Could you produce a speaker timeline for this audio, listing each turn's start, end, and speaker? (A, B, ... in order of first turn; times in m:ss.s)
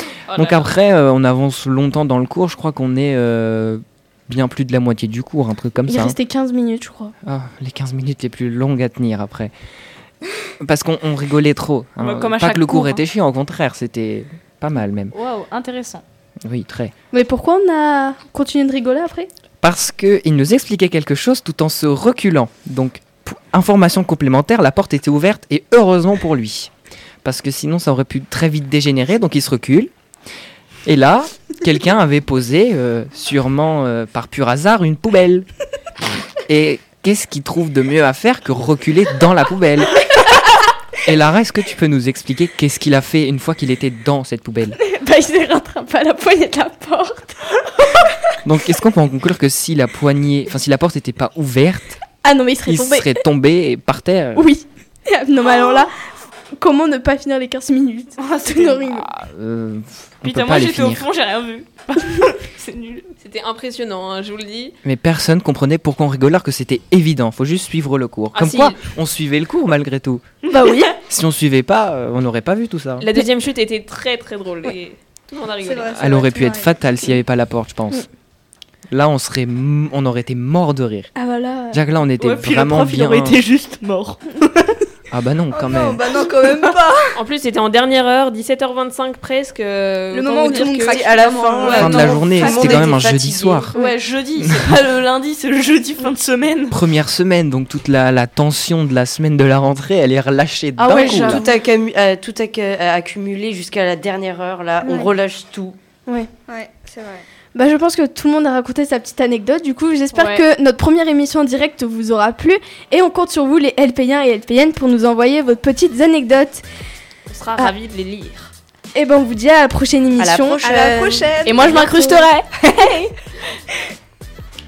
0:00.3-0:00.7 A
0:00.3-0:06.2 B
0:05.8-0:07.1 C
0:07.2-0:09.5 B
0:10.6-0:15.1 B
0:12.0-0:13.0 D
0:15.1-0:16.0 D
0:16.4-0:16.9 B
0:17.1-0:19.3 C
0:19.6-0:26.7 B
0:27.2-0:29.9 B
0:30.8-0:35.5 B
0:36.4-0:40.1 B
0:41.0-0:44.8 B
0:44.8-0:47.4 C
0:48.4-0:52.0 B
0:52.2-0:53.2 C
0:52.6-0:54.5 B
0:54.3-0:55.9 C
0:56.6-0:59.1 C
0:58.2-0:58.9 D
0:59.1-1:01.0 B
1:00.2-1:03.1 D
1:03.2-1:04.8 A
1:04.8-1:10.2 B
1:08.3-1:08.8 A
1:10.5-1:10.9 C
1:10.6-1:10.9 D
1:11.0-1:13.1 B
1:13.0-1:16.1 A
1:15.6-1:16.7 E
1:15.9-1:18.1 B
1:18.9-1:21.1 B
1:21.2-1:21.8 C
1:21.7-1:23.4 B
1:22.2-1:24.8 D
1:25.1-1:26.0 B
1:25.5-1:27.2 E
1:27.1-1:31.0 A
1:30.1-1:32.9 E
1:30.8-1:33.7 F
1:31.6-1:32.9 A
1:31.7-1:33.7 B
1:33.7-1:36.8 D
1:34.4-1:34.8 B
1:36.7-1:41.4 B
1:40.8-1:41.5 D
1:40.9-1:41.4 C
1:41.1-1:45.8 F
1:44.8-1:45.1 C
1:46.5-1:47.2 E
1:47.5-1:56.6 C
1:50.1-1:50.4 D
1:57.3-1:58.5 A
1:58.9-2:00.6 C
2:00.2-2:01.4 F
2:00.6-2:02.2 E
2:01.4-2:03.2 D